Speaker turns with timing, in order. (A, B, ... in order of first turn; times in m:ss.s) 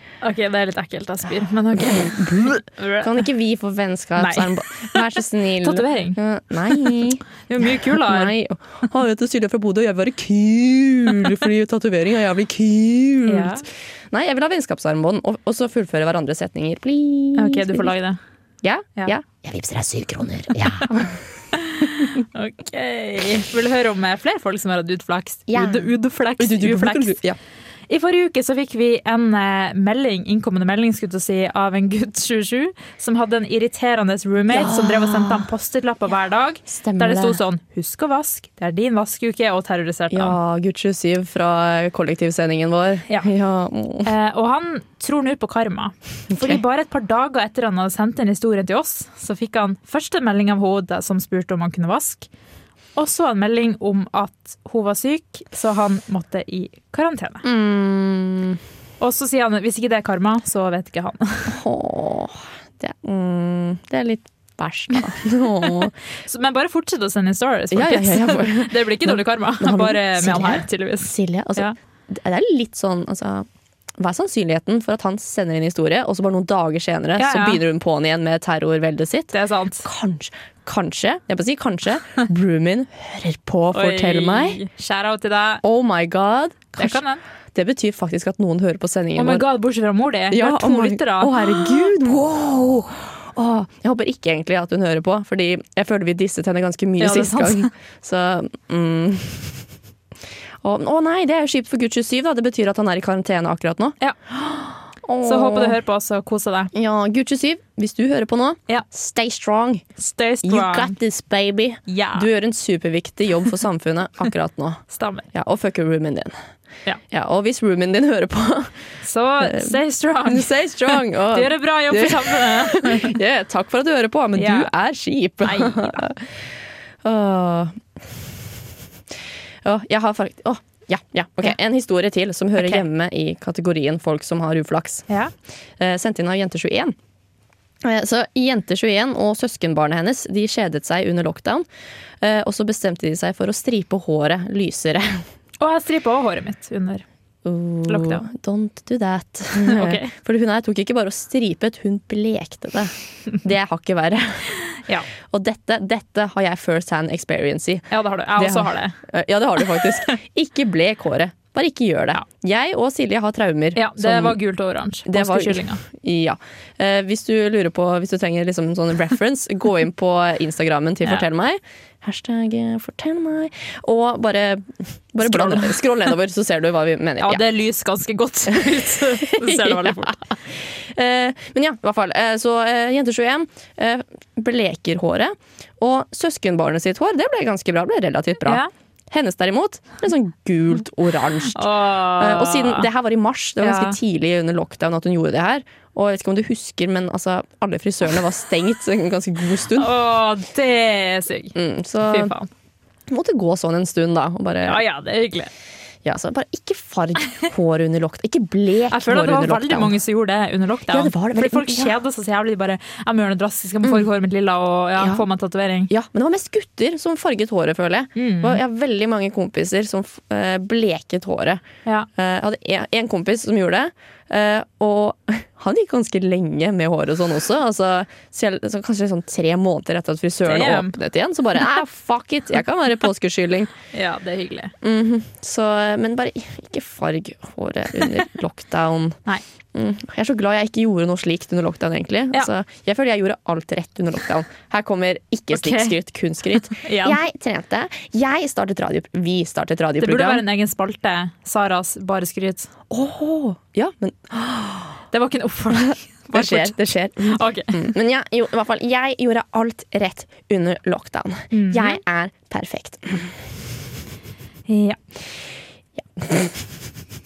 0:00.2-0:03.2 A
0:01.7-0:17.9 B
0:04.2-0:05.1 A
0:05.6-0:07.0 A
0:07.5-0:08.3 A
0:13.3-0:13.6 A
0:17.4-0:18.2 A
0:18.6-0:21.2 B
0:21.6-0:27.2 A
0:25.5-0:27.4 B
0:27.9-0:40.4 A
0:34.5-0:35.5 B
0:36.7-0:37.4 B
0:40.1-0:44.1 B
0:44.0-0:52.3 A
0:46.3-0:46.6 B
0:53.0-0:57.4 A
0:57.4-0:58.6 B
0:59.0-1:01.6 A
1:01.5-1:05.9 B
1:06.2-1:11.8 A
1:07.7-1:13.5 B
1:14.0-1:24.6 B
1:17.2-1:17.6 A
1:19.3-1:19.9 A
1:23.7-1:25.6 A
1:25.6-1:27.0 B
1:26.8-1:27.2 A
1:27.5-1:29.5 B
1:29.2-1:31.8 A
1:30.3-1:39.6 B
1:37.0-1:37.7 A
1:40.6-1:45.8 B
1:45.2-1:46.7 A
1:46.7-1:49.8 B
1:50.0-1:51.0 A
1:50.4-1:56.4 B
1:51.9-1:52.3 A
1:54.9-1:55.3 A
1:57.1-1:58.8 B
1:59.0-2:03.2 A
1:59.4-2:06.4 B
2:04.4-2:04.7 A
2:05.4-2:06.0 A
2:07.0-2:07.8 B
2:09.6-2:15.1 B
2:12.6-2:12.8 A
2:15.8-2:17.0 B
2:17.8-2:21.7 B
2:22.2-2:25.2 B
2:25.6-2:27.0 A
2:27.4-2:34.5 B
2:27.9-2:28.3 A
2:29.6-2:30.1 A
2:35.2-2:44.4 B
2:37.9-2:39.0 A
2:43.8-2:45.8 A
2:45.1-2:57.4 B
2:55.2-2:55.8 A
2:57.2-3:00.2 A
2:58.5-3:19.9 B
3:08.4-3:08.7 A
3:11.6-3:12.9 A
3:13.6-3:14.0 A
3:19.8-3:22.5 A
3:21.6-3:22.3 B
3:23.1-3:24.8 B
3:24.6-3:25.5 A
3:26.0-3:30.0 B
3:28.9-3:35.9 A
3:30.9-3:32.0 B
3:35.0-3:35.3 B
3:35.9-3:41.6 B
3:38.2-3:38.6 A
3:42.2-3:53.7 B
3:50.4-3:51.0 A
3:53.9-3:54.7 A
3:54.8-3:59.2 B
3:59.7-4:10.4 B
4:05.5-4:06.0 A
4:06.6-4:07.2 A
4:10.0-4:12.7 A
4:12.9-4:15.0 B
4:15.1-4:17.9 A
4:15.7-4:23.5 B
4:21.5-4:22.0 A
4:24.7-4:25.0 A
4:26.0-4:26.7 B